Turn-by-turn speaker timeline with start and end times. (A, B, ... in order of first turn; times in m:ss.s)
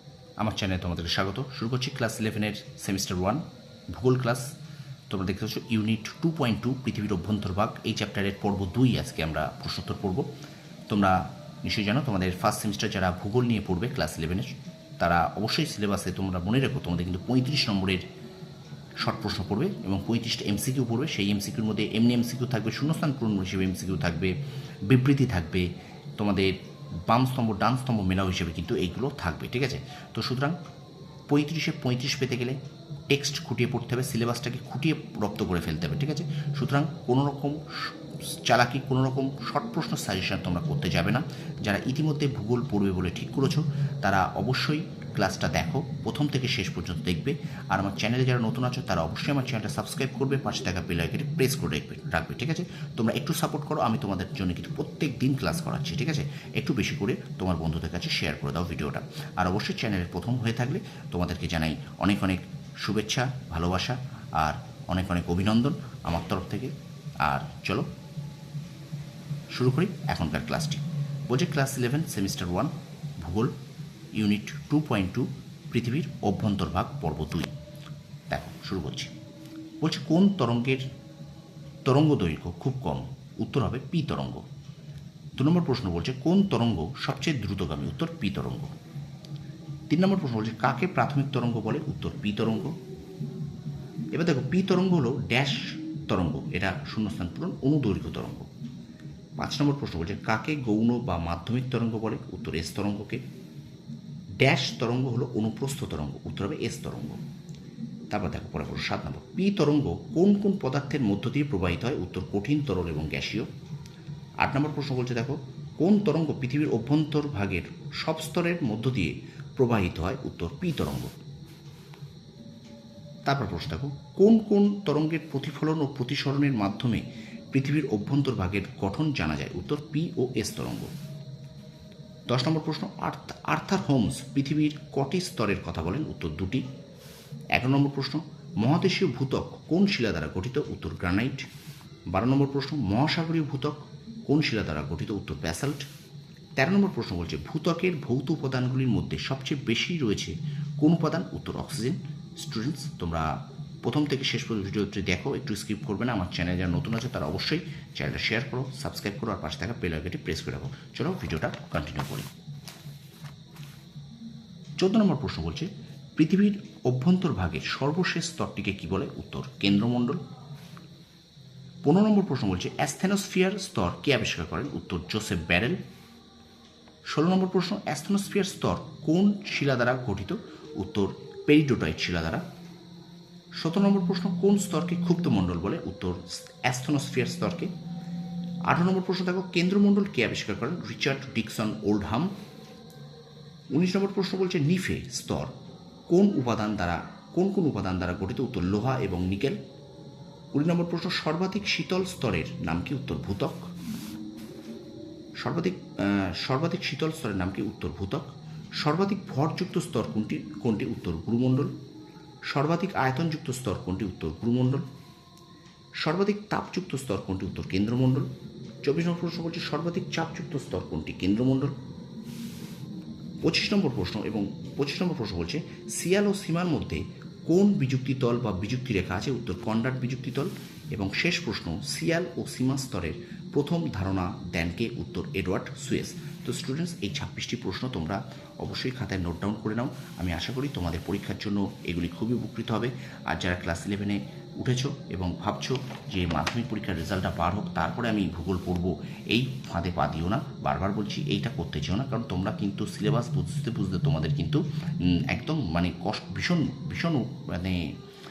0:00.4-0:04.6 A
0:05.1-0:10.3 A
0:10.9-0:18.0 A
0:19.0-0:24.3 A
0:24.9-0:26.6 A
0:27.1-0:30.6 A
0:31.3-1:07.9 A
1:09.5-1:13.5 A
1:14.2-1:17.5 A
1:18.3-1:19.1 A
1:19.8-1:20.9 A
1:21.9-1:24.4 A
1:25.4-1:28.7 A
1:29.9-1:32.8 A
1:34.1-1:38.5 A
1:39.4-1:43.2 A
1:44.4-1:47.2 A
1:48.1-1:53.5 A
1:54.4-2:01.2 A
2:03.3-2:10.9 A
2:12.3-2:16.6 A
2:17.6-2:21.5 A
2:22.1-2:25.9 A
2:26.6-2:42.3 A
2:44.8-2:50.2 A
2:51.8-2:55.8 A
2:57.1-3:02.4 A
3:03.6-3:07.7 A
3:08.7-3:12.3 A
3:13.7-3:15.5 A
3:16.1-3:19.6 A
3:20.5-3:23.7 A
3:25.4-3:31.7 A
3:32.5-3:34.8 A
3:36.0-3:38.3 A
3:38.8-3:41.7 A
3:43.4-4:17.9 A